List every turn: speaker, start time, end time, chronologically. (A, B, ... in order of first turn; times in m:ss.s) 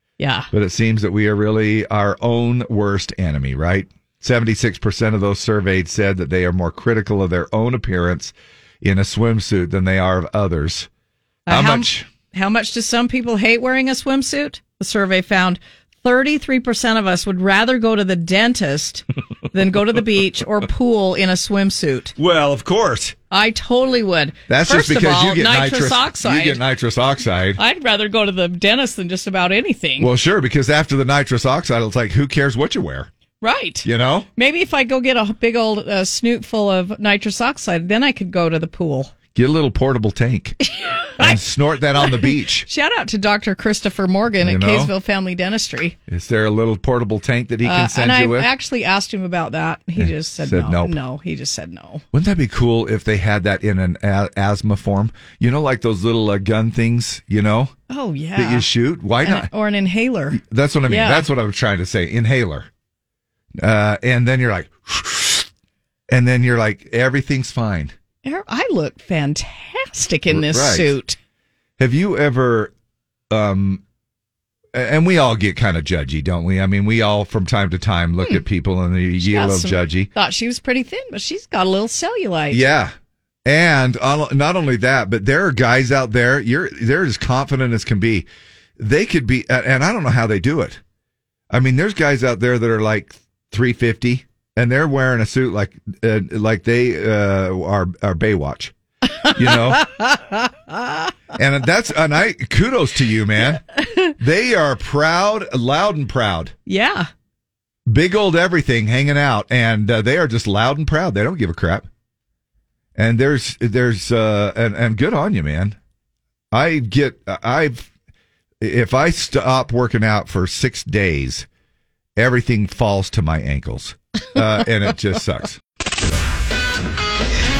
0:00.2-0:00.5 A
0:00.5-0:10.9 B
0:11.5-0:22.1 A
0:11.5-0:12.1 B
0:22.2-0:23.2 B
0:23.3-0:26.6 A
0:24.5-0:27.6 B
0:27.6-0:30.1 A
0:30.0-0:33.1 B
0:33.4-0:39.1 A
0:33.8-0:34.3 B
0:39.3-0:40.6 B
0:41.2-0:42.7 B
0:42.0-0:46.0 A
0:44.4-0:44.9 B
0:46.1-0:48.5 B
0:47.6-0:52.0 A
0:50.0-0:51.0 B
0:52.1-0:57.7 B
0:57.9-0:58.7 A
0:58.4-0:59.5 B
0:59.2-1:01.3 A
1:00.3-1:02.7 B
1:03.6-1:05.5 B
1:06.1-1:07.9 B
1:08.2-1:11.2 A
1:10.3-1:11.0 B
1:11.8-1:12.7 B
1:13.3-1:13.8 B
1:14.7-1:20.1 B
1:19.2-1:22.6 A
1:22.5-1:22.9 B
1:23.4-1:28.3 B
1:28.8-1:30.8 B
1:31.5-1:38.7 B
1:39.2-1:40.5 A
1:39.3-1:39.8 B
1:41.3-1:43.6 B
1:43.8-1:44.1 A
1:44.2-1:46.5 B
1:46.7-1:47.1 A
1:47.9-1:51.9 B
1:53.0-1:55.8 B
1:56.5-1:57.9 B
1:58.6-2:01.4 B
2:02.2-2:05.6 B